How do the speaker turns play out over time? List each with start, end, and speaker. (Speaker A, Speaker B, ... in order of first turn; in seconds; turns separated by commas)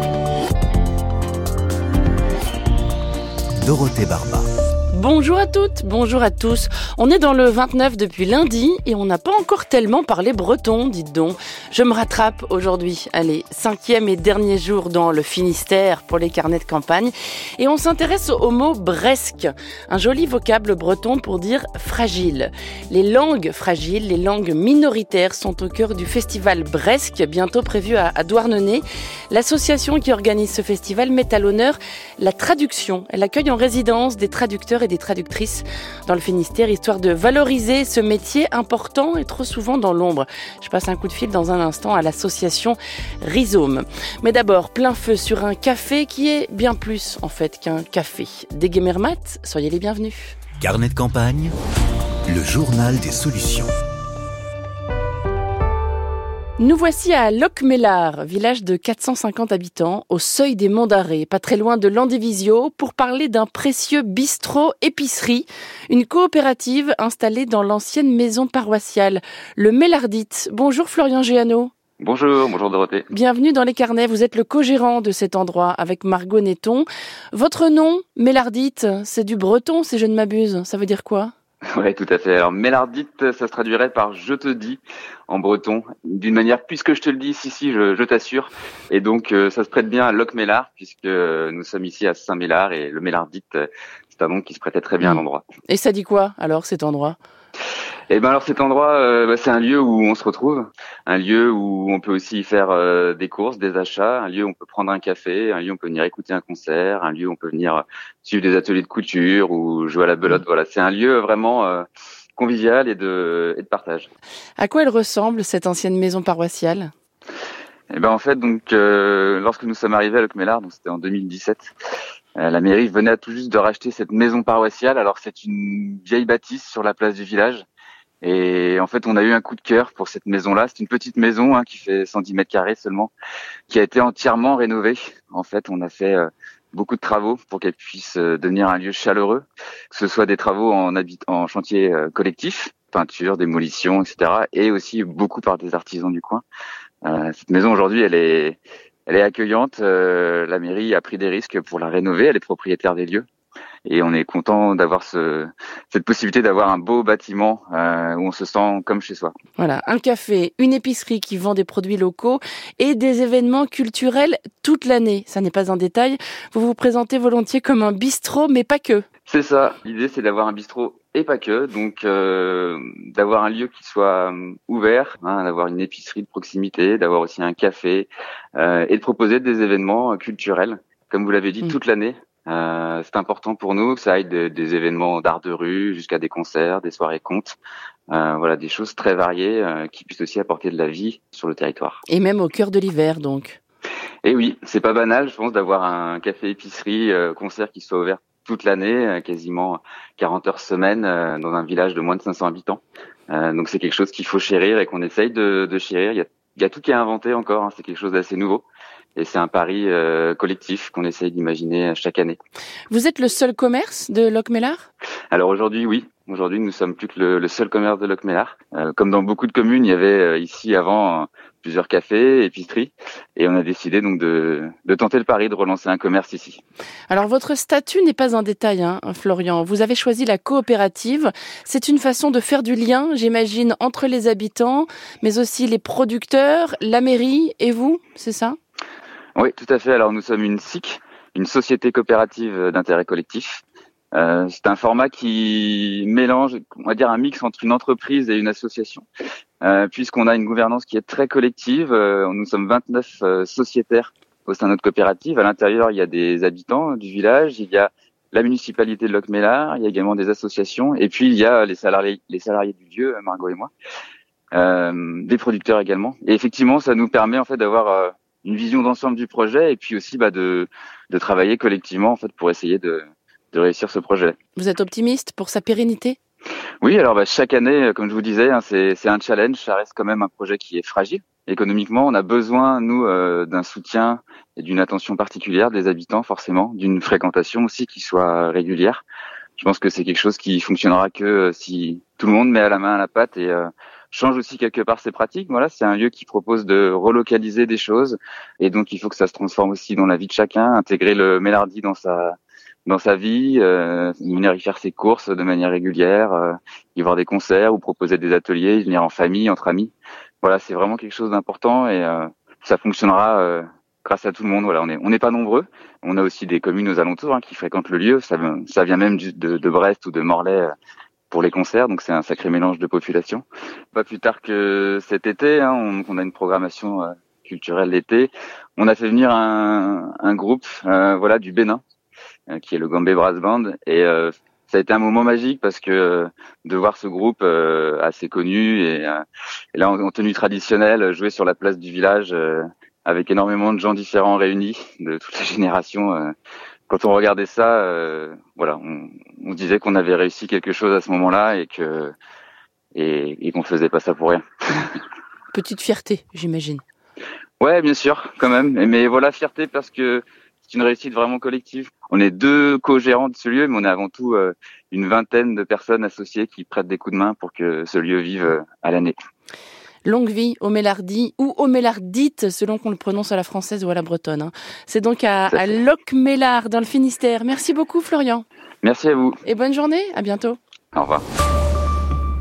Speaker A: 3.6-4.5, Speaker B: 4.9-50.4, Speaker A: 50.6-51.5, Speaker A: 52.3-53.7, Speaker B: 56.6-71.7, Speaker C: 72.0-73.1, Speaker B: 73.1-81.3, Speaker C: 81.7-95.4, Speaker B: 95.0-97.2, Speaker C: 98.1-111.8, Speaker C: 112.4-114.1, Speaker B: 114.6-116.9, Speaker C: 117.9-121.7, Speaker C: 122.4-127.6, Speaker C: 128.2-133.1, Speaker C: 133.7-146.4, Speaker C: 147.0-153.2, Speaker C: 153.8-159.3, Speaker B: 159.6-169.1, Speaker C: 169.3-187.6, Speaker C: 188.1-192.0, Speaker B: 192.1-193.6, Speaker C: 194.2-208.6, Speaker C: 209.2-212.4, Speaker B: 212.9-214.9, Speaker C: 215.3-226.6, Speaker B: 227.1-238.6, Speaker C: 239.3-249.0, Speaker C: 249.6-263.7, Speaker C: 264.5-274.4, Speaker B: 274.6-276.2, Speaker C: 276.8-289.0, Speaker C: 289.6-320.7, Speaker C: 321.3-331.8, Speaker C: 332.5-339.2, Speaker C: 339.7-346.3, Speaker C: 346.9-352.1, Speaker C: 352.9-355.0, Speaker B: 355.5-356.8, Speaker C: 357.6-369.1, Speaker B: 370.0-378.4, Speaker C: 375.5-375.8, Speaker C: 378.8-379.4, Speaker B: 379.4-380.6, Speaker C: 380.9-381.2